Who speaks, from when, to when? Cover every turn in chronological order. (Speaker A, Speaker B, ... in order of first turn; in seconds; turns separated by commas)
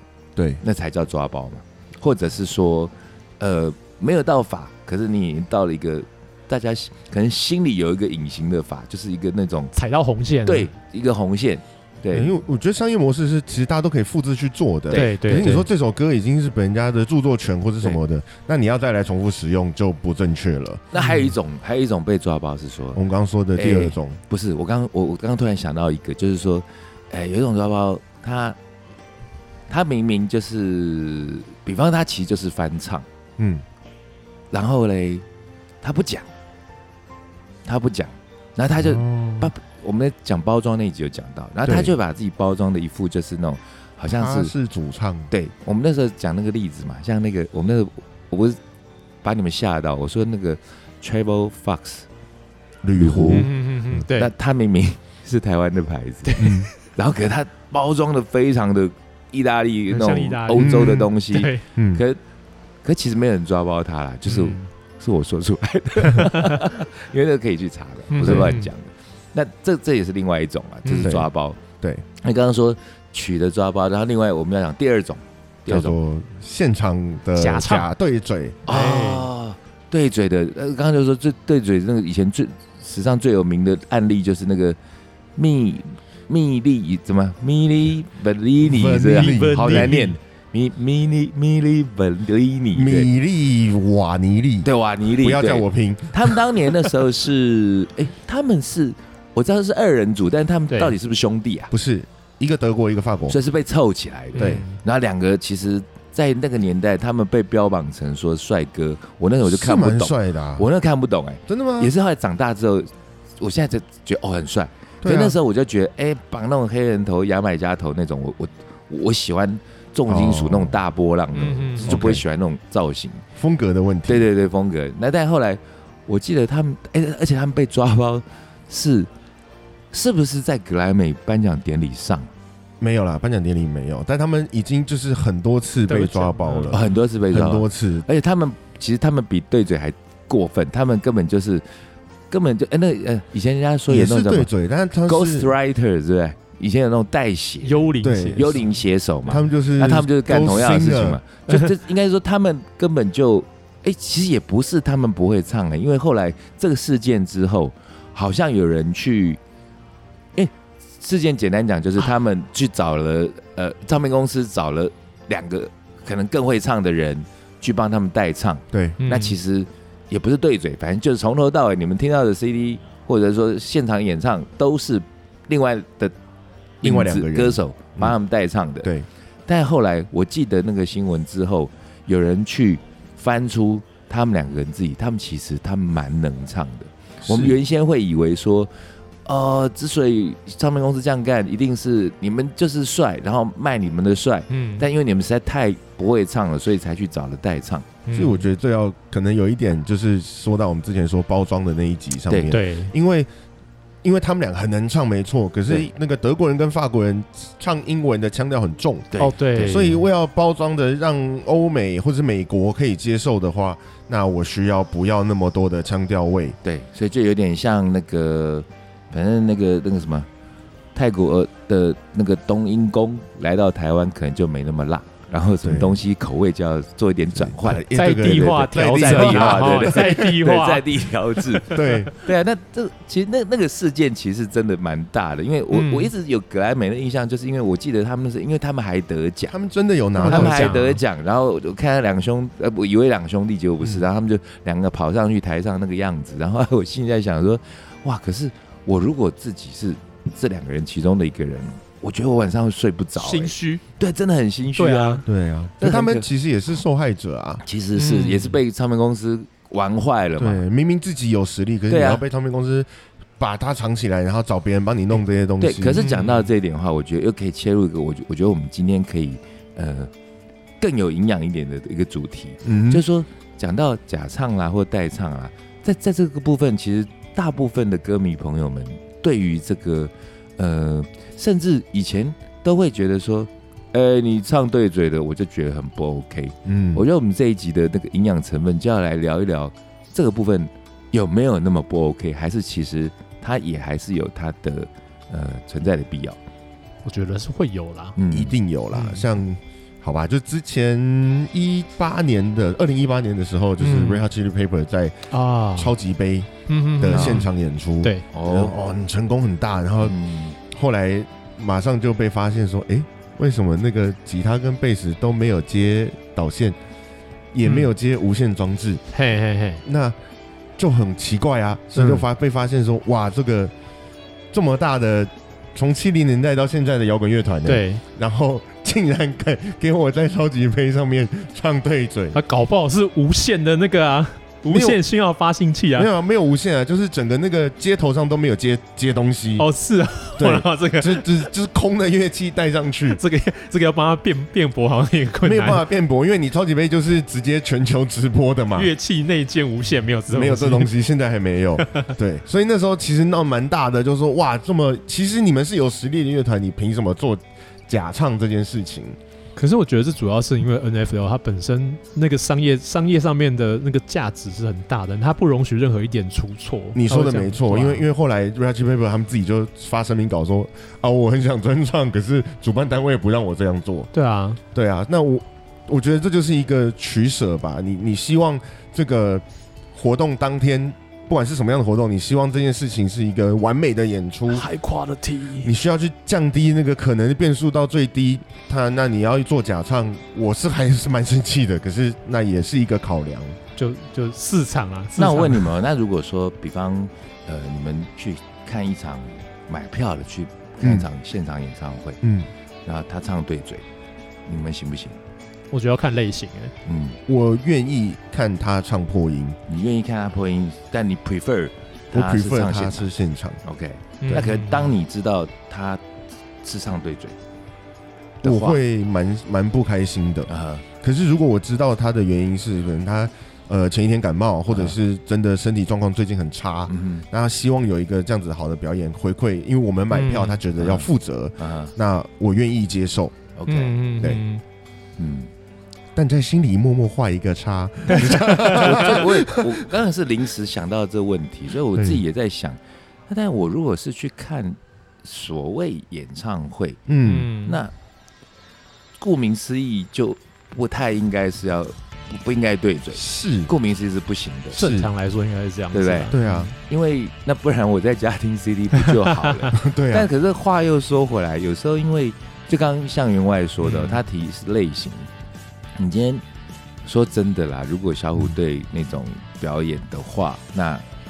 Speaker A: 0.3-0.6, Speaker B: 0.6-9.7, Speaker C: 9.7-10.7, Speaker B: 10.4-12.3, Speaker A: 12.1-20.8, Speaker B: 14.9-15.6, Speaker C: 14.9-15.7, Speaker B: 20.9-23.0, Speaker C: 20.9-21.3, Speaker A: 22.9-24.2, Speaker B: 23.5-28.6, Speaker B: 29.7-33.0, Speaker A: 33.4-33.6, Speaker B: 34.5-35.2, Speaker B: 35.8-36.3, Speaker B: 37.6-44.5, Speaker A: 38.8-39.5, Speaker A: 41.6-41.9, Speaker A: 44.1-45.3, Speaker B: 45.3-48.6, Speaker B: 49.2-52.1, Speaker A: 52.8-54.0, Speaker B: 53.0-53.5, Speaker C: 53.2-54.3, Speaker B: 54.1-62.2, Speaker C: 56.2-56.7, Speaker A: 56.4-56.7, Speaker C: 59.9-61.6, Speaker A: 60.6-61.1, Speaker A: 61.8-62.0, Speaker B: 62.8-71.6, Speaker C: 64.2-64.7, Speaker C: 66.1-66.7, Speaker C: 68.1-68.7, Speaker A: 68.2-68.5, Speaker C: 70.8-71.2, Speaker A: 71.0-71.2, Speaker B: 72.2-76.0, Speaker A: 75.7-78.6, Speaker C: 77.4-77.9, Speaker B: 78.7-84.8, Speaker C: 78.7-79.3, Speaker B: 85.3-93.1, Speaker A: 88.6-90.1, Speaker C: 89.1-90.1, Speaker A: 92.7-94.7, Speaker B: 94.6-101.7, Speaker A: 95.2-96.3, Speaker A: 101.7-103.4, Speaker B: 103.3-123.2, Speaker C: 104.3-104.8, Speaker A: 104.4-104.6, Speaker A: 109.4-110.6, Speaker A: 111.5-111.9, Speaker A: 115.0-115.3, Speaker A: 120.1-120.8, Speaker C: 121.3-122.0, Speaker A: 121.8-122.2, Speaker A: 123.3-124.3, Speaker B: 124.1-129.1, Speaker B: 129.9-132.3, Speaker A: 132.8-138.1, Speaker C: 135.9-136.9, Speaker B: 136.7-141.6, Speaker B: 142.3-144.5, Speaker A: 143.9-145.5, Speaker B: 145.1-159.4, Speaker C: 147.6-148.6, Speaker A: 148.0-148.6, Speaker A: 149.2-151.2, Speaker B: 160.3-176.1, Speaker A: 168.7-169.0, Speaker C: 169.0-169.3, Speaker B: 176.8-178.9, Speaker A: 176.8-178.2, Speaker B: 179.5-188.7, Speaker A: 187.2-187.6, Speaker B: 189.2-197.9, Speaker C: 194.5-194.9, Speaker C: 198.1-198.4, Speaker A: 198.1-203.3, Speaker B: 202.3-202.5, Speaker C: 202.5-202.9, Speaker A: 204.0-216.6, Speaker B: 209.1-209.6, Speaker C: 209.2-210.0, Speaker B: 216.6-220.3, Speaker B: 220.9-239.6, Speaker A: 225.6-226.0, Speaker A: 227.3-230.2, Speaker C: 227.9-231.9, Speaker A: 231.7-232.1, Speaker C: 235.7-236.1, Speaker A: 239.5-240.8, Speaker C: 240.2-241.0, Speaker B: 240.2-255.2, Speaker C: 253.2-253.8, Speaker C: 254.8-255.2, Speaker A: 255.2-257.6, Speaker B: 255.8-256.2, Speaker B: 257.6-260.6, Speaker C: 257.9-258.6, Speaker A: 260.4-266.1, Speaker B: 261.9-262.2, Speaker B: 265.6-270.1, Speaker C: 266.0-266.5, Speaker B: 270.8-296.4, Speaker A: 272.6-273.0, Speaker A: 286.6-287.0, Speaker C: 297.0-298.1, Speaker B: 298.2-298.5, Speaker A: 298.3-316.8, Speaker C: 298.9-299.3, Speaker C: 303.8-304.2, Speaker C: 305.3-305.9, Speaker C: 306.7-307.5, Speaker B: 307.1-307.4, Speaker B: 308.3-308.8, Speaker B: 310.0-310.6, Speaker A: 317.5-319.0, Speaker C: 317.6-317.9, Speaker C: 319.1-319.8, Speaker A: 319.8-320.2, Speaker A: 320.8-323.7, Speaker C: 321.9-322.2, Speaker A: 324.5-332.4, Speaker C: 327.6-328.0, Speaker C: 332.3-336.1, Speaker A: 334.7-335.0, Speaker A: 335.9-339.7, Speaker C: 339.6-341.3, Speaker A: 340.4-343.2, Speaker C: 343.1-345.8, Speaker A: 345.4-348.9, Speaker C: 348.7-350.9, Speaker A: 350.3-359.2, Speaker C: 351.8-352.1, Speaker C: 359.6-368.0, Speaker A: 366.9-374.1, Speaker C: 374.1-374.6, Speaker A: 374.7-384.7, Speaker C: 384.5-385.7, Speaker A: 385.6-393.6, Speaker C: 393.8-395.7, Speaker B: 395.1-402.2, Speaker A: 400.8-401.1, Speaker A: 402.2-402.5, Speaker B: 402.8-403.8, Speaker B: 404.4-405.2, Speaker C: 405.7-406.7, Speaker B: 406.9-407.2, Speaker A: 407.3-409.6, Speaker B: 409.7-413.1, Speaker A: 412.1-413.6, Speaker B: 413.6-416.0, Speaker C: 414.2-414.9, Speaker B: 416.6-417.4, Speaker B: 418.4-418.8, Speaker A: 418.4-433.4, Speaker B: 420.5-420.8, Speaker B: 424.7-424.9, Speaker B: 426.9-427.2, Speaker C: 430.1-430.6, Speaker B: 430.8-431.1, Speaker B: 431.6-431.9, Speaker B: 433.6-434.0, Speaker C: 433.7-434.6, Speaker B: 435.2-435.5, Speaker A: 436.1-439.8, Speaker C: 438.1-439.0, Speaker B: 438.5-447.0, Speaker A: 447.1-447.5, Speaker C: 447.2-447.8, Speaker B: 447.6-447.9, Speaker B: 449.2-454.8, Speaker A: 453.1-453.7, Speaker C: 454.7-456.7, Speaker A: 454.8-455.1, Speaker B: 455.9-456.3, Speaker A: 456.3-456.7, Speaker B: 456.9-465.3, Speaker C: 459.1-459.7, Speaker A: 459.7-460.3, Speaker C: 463.8-464.2, Speaker B: 465.9-466.4, Speaker B: 467.0-471.0